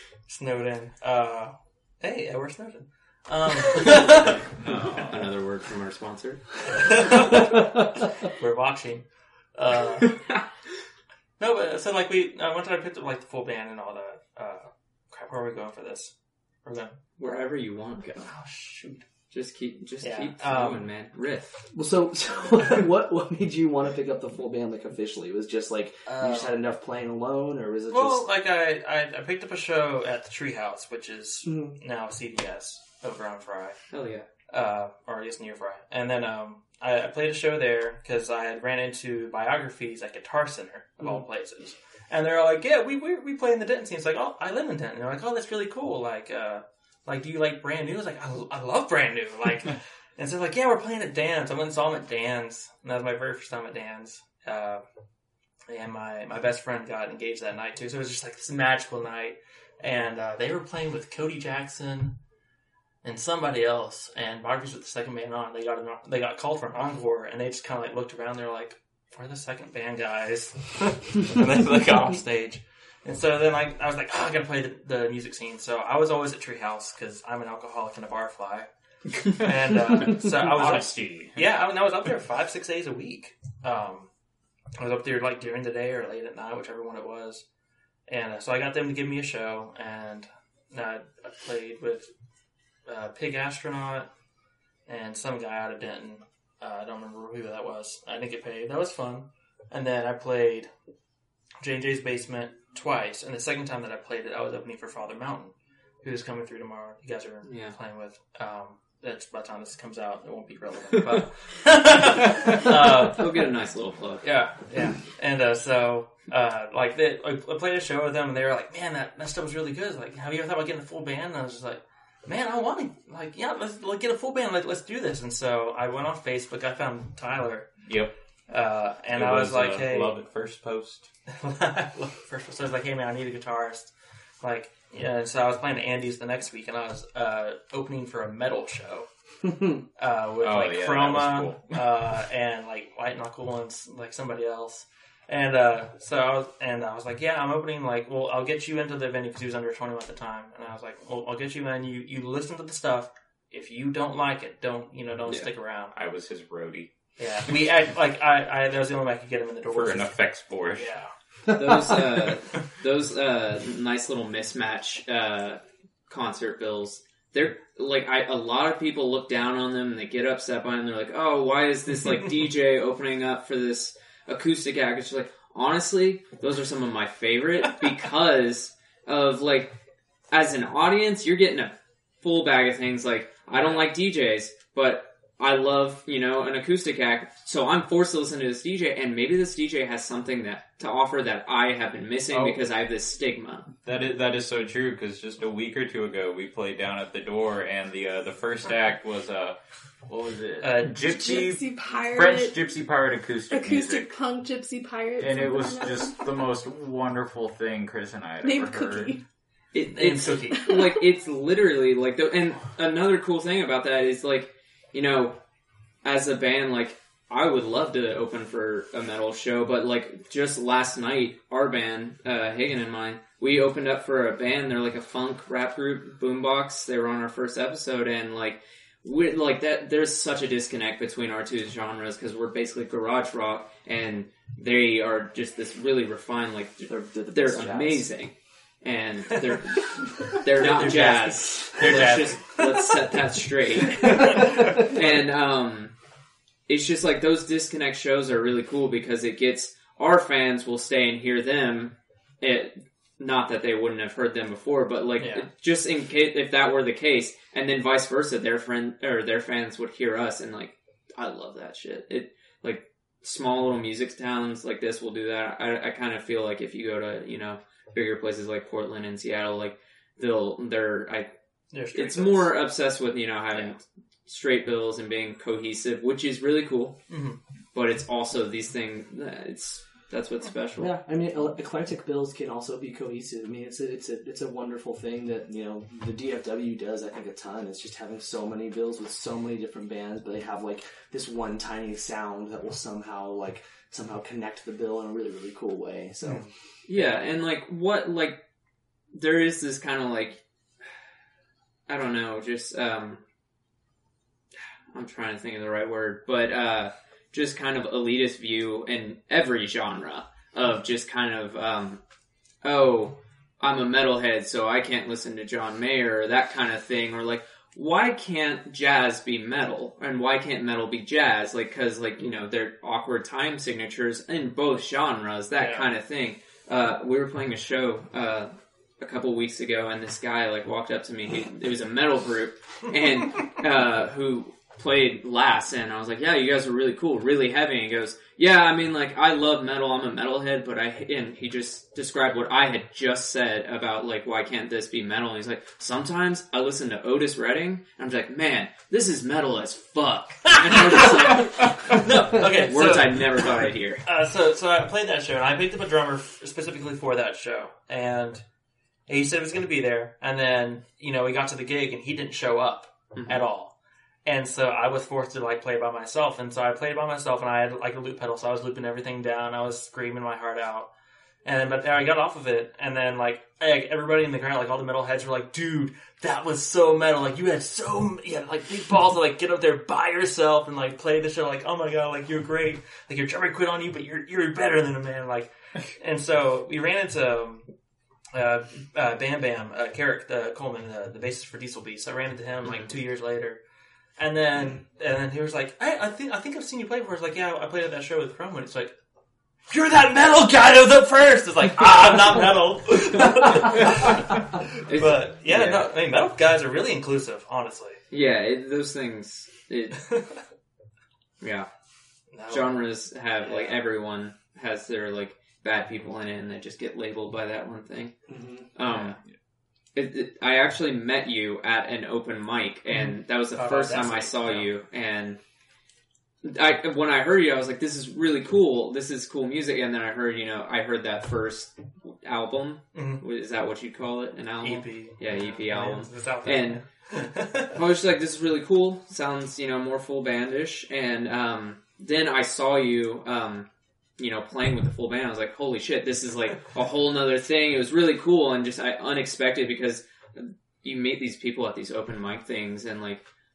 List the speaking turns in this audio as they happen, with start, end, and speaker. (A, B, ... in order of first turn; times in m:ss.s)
0:00.2-0:05.1 A
0:04.6-0:05.2 B
0:05.1-0:07.1 C
0:06.8-0:10.3 A
0:11.4-0:16.1 A
0:16.6-0:16.9 A
0:17.2-0:18.3 C
0:18.2-0:19.0 A
0:19.3-0:21.6 C
0:20.0-0:20.8 A
0:21.7-0:28.2 D
0:26.0-0:26.6 A
0:27.9-0:33.8 A
0:31.4-0:31.7 D
0:33.9-0:34.3 C
0:34.5-0:54.8 A
0:55.7-1:02.2 A
1:03.0-1:18.7 A
1:19.2-1:24.1 A
1:20.3-1:21.4 B
1:24.8-1:27.4 A
1:28.1-1:32.0 A
1:32.8-1:34.1 A
1:34.9-1:40.7 A
1:41.6-1:53.2 A
1:47.4-1:47.7 C
1:52.9-1:54.3 C
1:54.2-2:07.7 A
2:07.8-2:08.1 B
2:08.5-2:10.1 A
2:09.1-2:11.1 B
2:11.3-2:19.1 A
2:19.4-2:19.8 D
2:20.0-2:35.9 A
2:20.4-2:22.1 B
2:35.9-2:36.9 B
2:37.2-2:41.1 A
2:39.7-2:40.9 B
2:41.5-2:59.8 C
3:00.3-3:13.7 C
3:03.5-3:03.9 A
3:12.3-3:12.6 B
3:13.8-3:24.1 B
3:20.6-3:21.0 A
3:21.0-3:22.7 E
3:23.5-3:26.4 E
3:25.2-3:29.1 B
3:28.4-3:29.2 E
3:29.7-3:35.4 C
3:29.9-3:30.6 A
3:30.6-3:31.0 E
3:36.0-4:05.9 C
3:56.9-3:58.0 D
4:00.5-4:02.9 A
4:04.0-4:05.2 A
4:06.7-4:31.3 C
4:15.2-4:15.5 A
4:31.7-4:32.5 A
4:31.9-4:37.0 C
4:37.1-4:37.4 A
4:37.7-4:40.9 C
4:40.8-4:56.5 D
4:56.2-4:57.1 A
4:56.9-4:58.4 C
4:59.1-5:00.4 C
5:01.9-5:03.2 C
5:04.9-5:12.0 C
5:12.6-5:54.0 C
5:25.6-5:25.9 A
5:51.9-5:53.2 A
5:54.0-5:58.4 A
5:59.1-6:10.9 A
6:03.1-6:03.4 C
6:11.4-6:27.6 A
6:28.3-6:33.6 A
6:34.2-6:39.0 A
6:39.7-6:48.0 A
6:44.8-6:45.9 C
6:48.1-6:50.1 C
6:51.4-6:51.7 C
6:52.3-6:52.9 A
6:52.5-6:58.1 C
6:53.4-6:53.8 A
6:58.3-6:58.7 D
6:58.7-6:59.2 C
6:58.8-6:59.2 A
6:59.9-7:05.4 C
7:02.9-7:04.7 A
7:06.4-7:16.8 C
7:12.9-7:13.2 A
7:14.6-7:17.7 A
7:17.6-7:33.2 C